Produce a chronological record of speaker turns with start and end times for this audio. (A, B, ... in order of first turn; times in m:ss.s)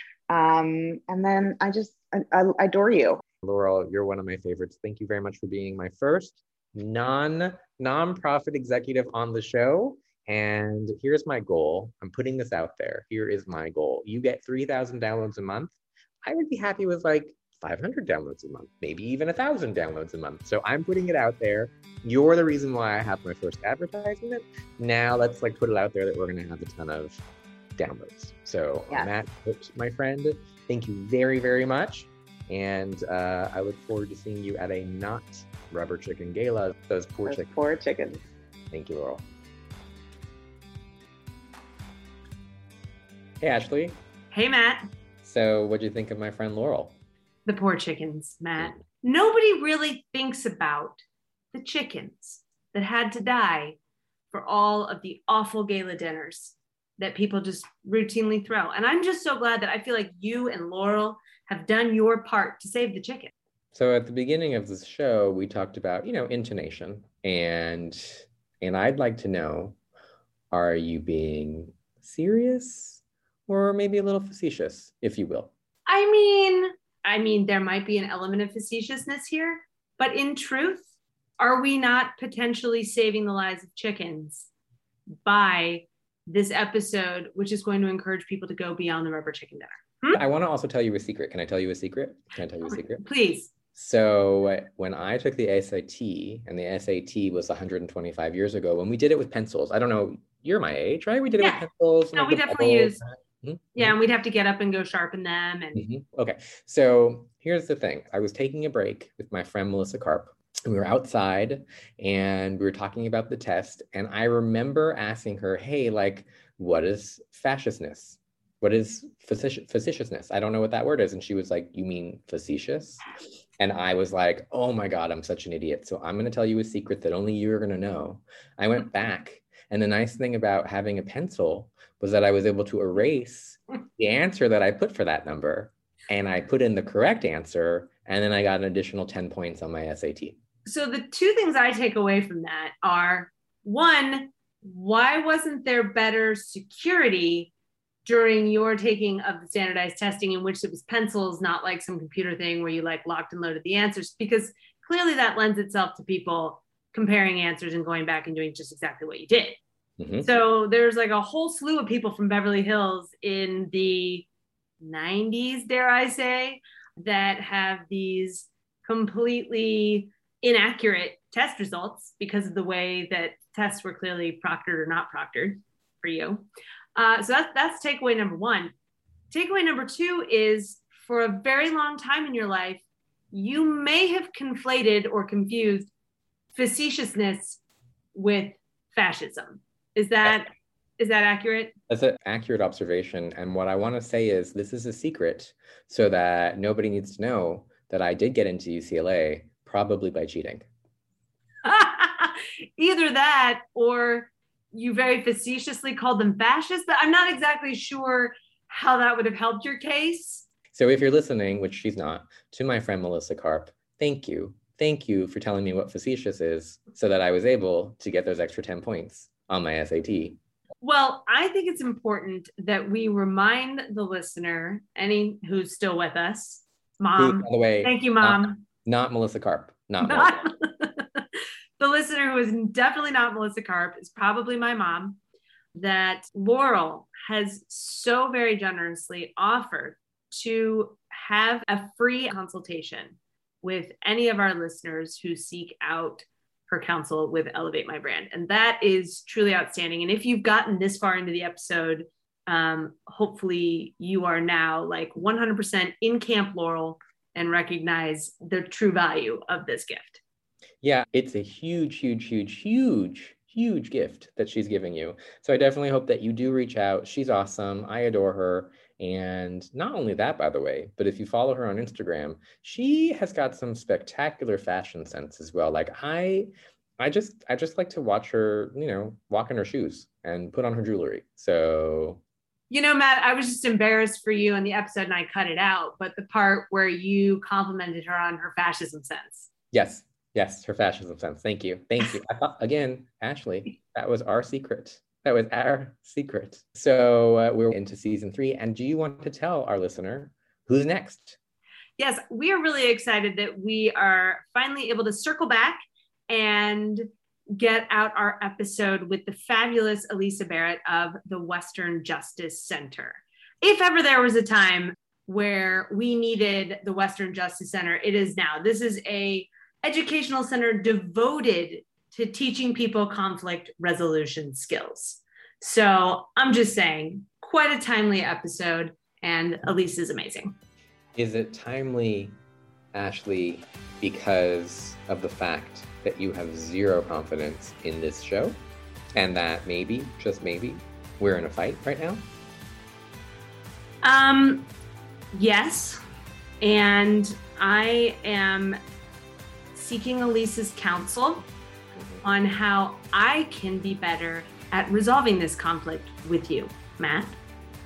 0:00.3-0:03.2 A
0:03.4-0:15.7 B
0:16.2-0:27.2 B
0:27.8-0:37.5 B
0:37.2-0:38.2 A
0:38.7-0:39.2 B
0:43.4-0:44.0 B
0:44.3-0:44.9 C
0:45.2-0:46.9 B
0:47.4-0:53.8 C
0:54.3-1:03.3 C
1:03.7-1:09.8 B
1:10.5-1:15.5 B
1:15.9-1:20.8 C
1:21.4-1:24.5 C
1:25.2-1:30.2 C
1:30.1-1:33.0 B
1:32.7-1:33.5 C
1:33.7-1:44.0 B
1:41.4-1:43.0 C
1:43.8-1:45.8 C
1:45.7-2:03.1 B
2:03.6-2:20.4 B
2:20.6-2:27.5 C
2:28.0-2:39.6 C
2:40.0-2:40.2 B
2:40.2-2:44.2 C
2:44.8-2:58.7 C
2:59.3-3:05.9 C
3:06.5-3:07.6 C
3:08.1-3:11.7 C
3:11.9-3:20.7 B
3:21.6-3:30.4 C
3:30.7-3:40.4 B
3:40.8-3:48.6 C
3:47.2-3:50.5 B
3:50.0-3:51.2 C
3:51.8-3:55.2 C
3:55.7-4:20.2 C
4:20.8-4:42.2 B
4:42.7-4:49.5 C
4:49.7-5:01.4 B
5:02.0-5:30.5 C
5:31.2-5:32.4 B
5:32.9-5:38.6 B
5:39.1-5:42.3 B
5:44.0-5:44.7 C
5:45.3-5:46.0 C
5:46.6-5:48.8 C
5:49.7-5:51.4 C
5:51.9-5:52.2 B
5:52.2-5:57.4 C